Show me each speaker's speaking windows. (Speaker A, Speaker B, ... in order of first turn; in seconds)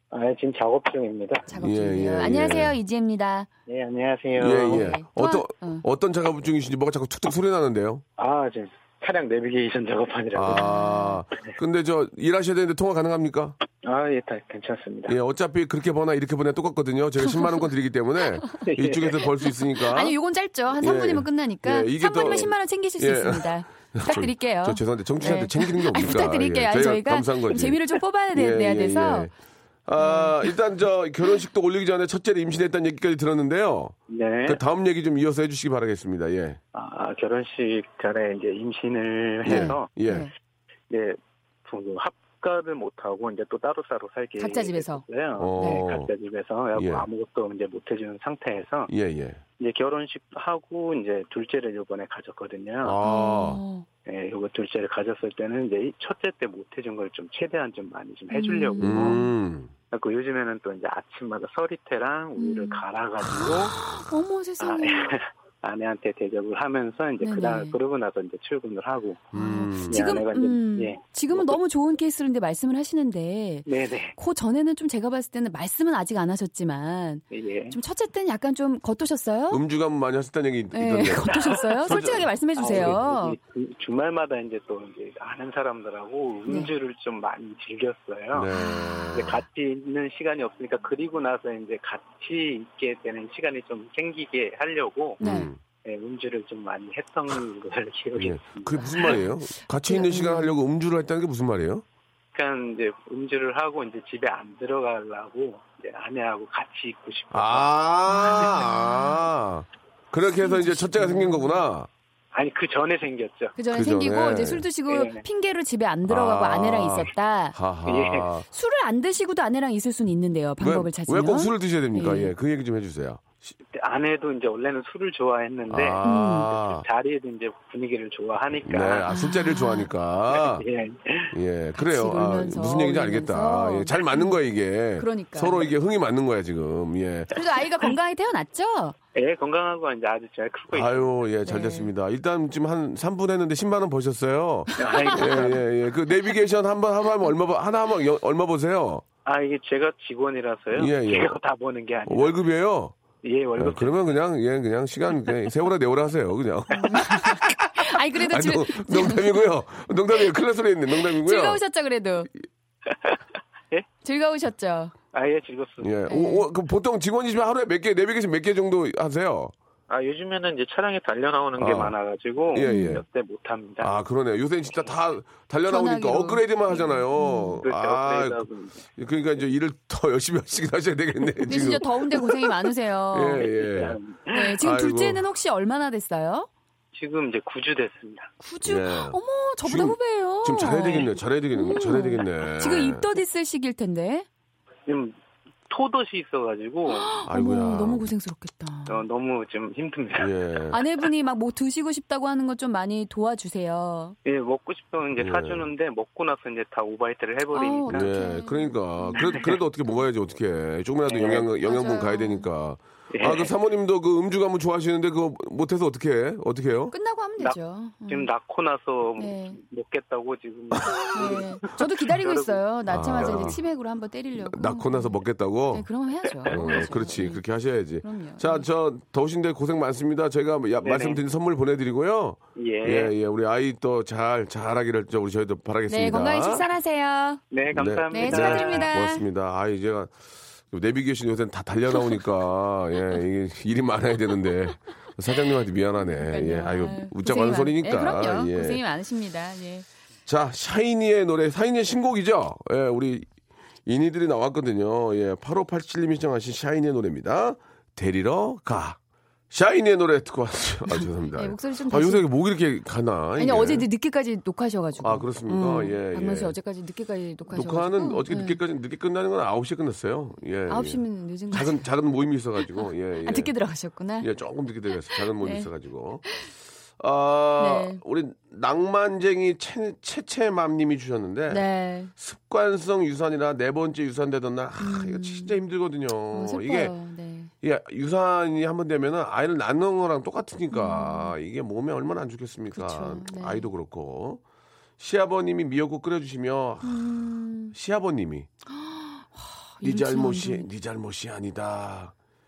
Speaker A: 0.1-1.5, 3.7-5.0, 8.2-10.7, 13.8-15.2, 18.6-19.3, 34.1-34.6, 36.7-39.9, 40.9-48.9, 49.6-53.0, 54.0-59.2, 59.9-63.8, 64.6-69.3, 69.9-71.6, 73.7-74.2, 77.3-77.8, 81.3-88.5, 89.1-95.2, 95.8-99.2, 102.3-107.7, 112.3-113.6, 114.9-115.2, 117.8-118.3, 123.7-129.2, 130.3-131.4, 139.1-141.2, 144.8-145.7, 149.2-152.4, 153.2-154.0, 162.9-163.2, 165.1-166.1, 169.9-173.9, 177.6-178.8, 183.4-184.6, 186.9-188.3, 194.9-195.2, 195.7-197.1, 198.9-200.6, 204.2-208.2, 209.2-209.5, 211.1-211.5, 213.1-213.5, 217.4-223.6, 226.4-226.8, 230.8-231.2, 232.6-233.2, 237.5-238.9
Speaker B: 1.5-3.5, 4.6-5.8, 10.5-11.2, 17.2-17.6, 19.9-29.3, 30.0-30.5, 39.5-40.3, 44.4-45.0, 53.0-53.9, 58.3-59.3, 62.4-65.1, 67.2-67.8, 69.3-79.6, 80.7-83.4, 86.5-86.7, 88.5-89.2, 95.2-95.5, 98.7-99.3, 99.8-100.6, 108.1-109.2, 110.3-111.6, 113.6-117.6, 118.5-122.3, 126.0-126.5, 129.1-129.9, 131.8-134.4, 135.0-135.7, 137.3-139.0, 141.5-141.9, 144.8-145.6, 156.7-159.4, 161.1-162.3, 164.0-164.9, 166.1-166.5, 172.6-173.0, 175.7-177.6, 181.5-183.5, 184.3-186.5, 188.4-194.3, 196.9-199.0, 200.7-204.2, 207.5-209.5, 211.2-212.5, 216.9-218.3, 219.2-219.6, 221.1-227.4, 228.0-228.7, 235.9-237.4, 238.1-239.2, 246.0-249.9, 260.9-262.3, 263.4-268.6, 270.7-271.9, 272.8-274.3, 275.1-275.7, 277.6-278.0, 281.5-282.1, 284.8-285.6, 286.3-287.5, 290.7-291.4, 292.7-293.7, 296.8-297.8, 298.7-300.7
Speaker C: 1.6-2.8, 4.4-8.0, 10.3-13.6, 15.1-20.2, 20.8-29.3, 29.9-36.6, 39.4-40.3, 45.4-46.1, 46.8-47.1, 48.9-49.4, 52.8-53.6, 58.8-59.7, 69.3-70.1, 79.5-83.0, 88.3-89.4, 95.2-95.6, 98.2-101.8, 107.3-111.9, 113.7-114.7, 116.1-118.5, 120.6-123.5, 125.7-126.8, 128.6-130.7, 131.3-137.3, 140.7-149.0, 150.8-151.4, 152.1-153.0, 153.6-161.6, 165.8-169.5, 171.6-172.0, 172.5-173.0, 173.8-182.5, 183.1-184.0, 184.6-185.2, 188.6-193.1, 197.2-198.1, 200.2-200.8, 205.2-205.7, 207.9-216.9, 220.8-221.4, 222.9-223.6, 224.4-225.9, 226.5-236.7, 237.7-248.8, 250.3-253.3, 253.9-259.0, 259.5-263.9, 265.0-266.6, 267.5-273.5, 274.2-276.2, 277.0-286.9, 287.6-294.4, 295.0-297.1, 297.7-298.5, 299.8-302.1